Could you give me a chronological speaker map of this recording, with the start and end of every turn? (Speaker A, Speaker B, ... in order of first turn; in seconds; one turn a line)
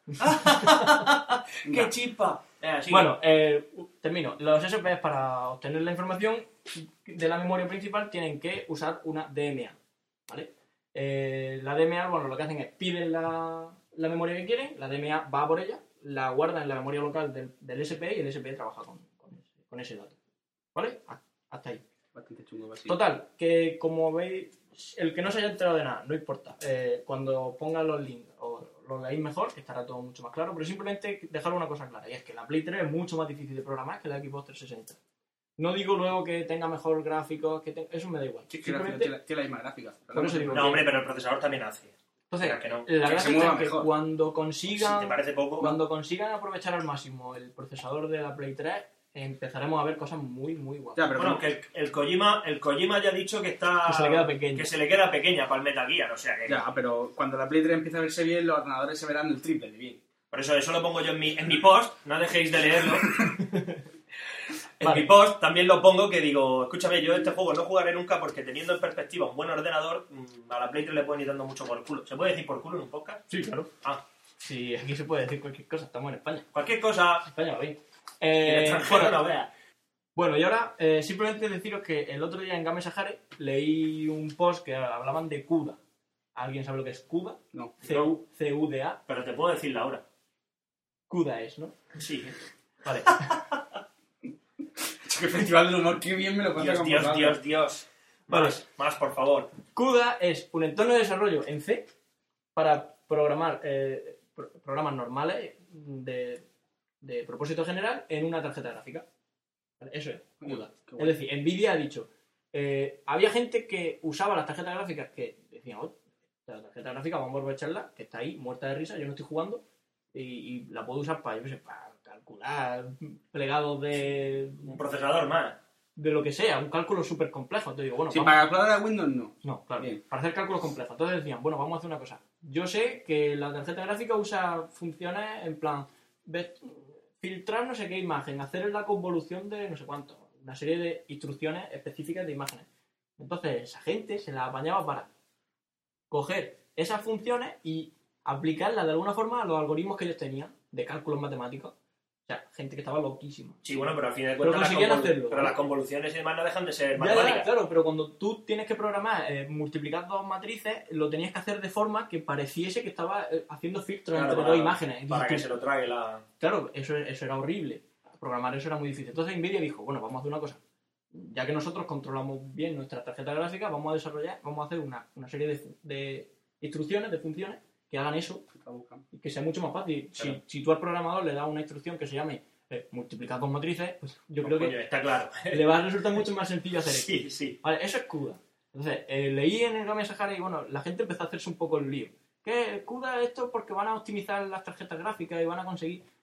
Speaker A: 0.2-3.1
Speaker B: 0.3-1.0
Speaker C: 1.6-1.9
Speaker B: 2.9-9.8
Speaker B: 10.3-20.2
Speaker B: 20.7-21.8
Speaker C: 22.1-23.0
Speaker B: 22.9-35.0
Speaker B: 35.6-39.1
Speaker C: 38.5-40.8
Speaker B: 40.1-40.8
Speaker A: 40.5-42.9
Speaker B: 42.3-51.1
Speaker C: 43.0-43.9
Speaker A: 44.7-45.7
Speaker C: 51.0-51.4
Speaker A: 51.1-56.6
Speaker B: 53.9-54.7
Speaker C: 56.5-60.0
Speaker A: 60.3-63.3
Speaker B: 63.4-63.8
Speaker A: 64.8-73.2
Speaker B: 64.8-65.0
Speaker B: 73.3-73.7
Speaker B: 74.4-76.5
Speaker A: 76.5-77.3
Speaker B: 77.2-79.2
Speaker A: 78.4-79.5
Speaker B: 80.2-85.8
Speaker B: 86.3-89.0
Speaker C: 87.5-88.1
Speaker A: 89.1-90.0
Speaker B: 91.1-91.8
Speaker A: 92.0-92.3
Speaker B: 92.8-93.2
Speaker C: 94.8-97.4
Speaker A: 96.5-99.5
Speaker B: 98.3-98.6
Speaker B: 99.7-101.9
Speaker B: 102.5-106.4
Speaker B: 107.0-109.0
Speaker B: 109.8-124.7
Speaker C: 110.4-111.2
Speaker A: 124.6-125.6
Speaker B: 126.0-128.4
Speaker C: 128.1-130.0
Speaker B: 129.4-142.7
Speaker B: 143.2-145.1
Speaker B: 146.1-151.7
Speaker B: 152.3-153.9
Speaker A: 153.6-157.5
Speaker B: 154.4-155.6
Speaker B: 157.0-165.5
Speaker A: 164.1-166.2
Speaker B: 166.4-170.6
Speaker B: 171.1-178.4
Speaker C: 178.5-179.0
Speaker B: 179.1-184.7
Speaker A: 184.4-185.6
Speaker B: 185.5-196.0
Speaker A: 186.9-187.6